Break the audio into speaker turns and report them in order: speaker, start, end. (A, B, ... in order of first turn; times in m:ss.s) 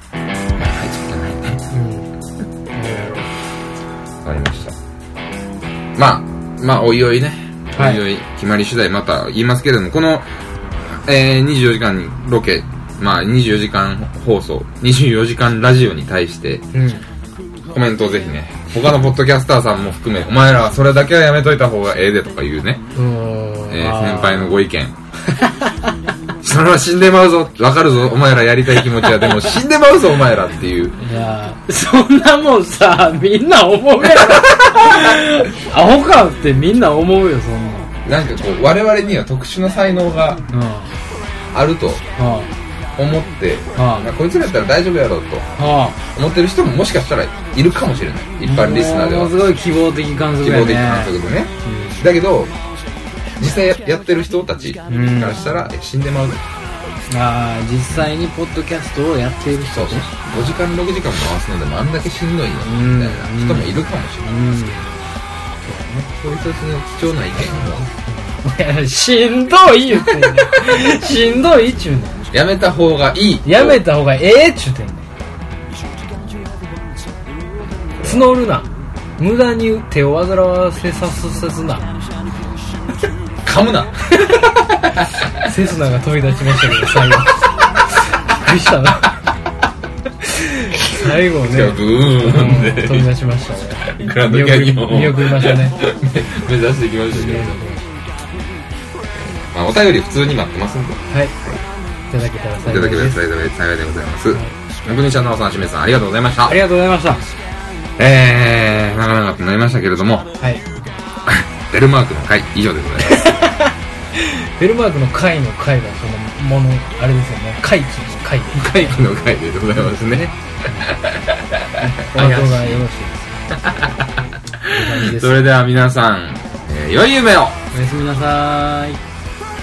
0:00.6-0:01.7 A
0:01.7-0:02.1 B
0:02.7-0:03.3 B
0:04.2-0:04.8 A
0:06.0-0:10.3 A
0:07.8-0:08.0 B
0:10.9-0:16.7 A
0:16.7-0:17.1 B
0:17.7-0:22.8 A
0:22.9-0:24.6 B
0:23.7-0:25.0 A
0:25.3-0:25.9 B
0:26.4-0:31.0 A
0:29.0-0:29.6 B
0:31.0-0:38.0 B
0:38.0-0:40.4 A
0:40.5-0:40.9 B
0:41.5-0:42.0 A
0:42.2-0:42.5 B
0:43.0-0:45.5 A
0:43.8-0:44.1 B
0:45.6-0:46.0 B
0:46.1-0:49.4 A
0:48.4-0:52.1 B
0:50.4-0:52.5 A
0:53.4-0:56.4 A
0:54.9-0:55.5 B
0:57.1-1:00.1 B
0:59.7-1:04.4 A
1:02.6-1:05.0 B
1:05.6-1:06.1 B
1:06.1-1:07.9 A
1:07.7-1:12.3 B
1:12.3-1:13.8 A
1:13.4-1:15.1 B
1:17.9-1:18.3 A
1:18.0-1:21.9 B
1:23.4-1:25.1 A
1:25.4-1:29.2 B
1:30.2-1:35.8 B
1:30.9-1:33.1 A
1:33.8-1:37.7 A
1:37.1-1:37.8 B
1:39.2-1:41.0 A
1:41.1-1:41.4 B
1:42.1-1:43.2 B
1:42.7-1:46.6 A
1:46.4-1:47.2 B
1:48.0-1:50.3 A
1:50.4-1:50.6 B
1:51.3-1:53.3 A
1:53.0-1:59.0 B
1:58.6-2:02.8 A
1:59.8-2:00.2 B
2:01.8-2:03.4 B
2:03.5-2:07.6 A
2:04.7-2:05.4 B
2:07.7-2:09.0 B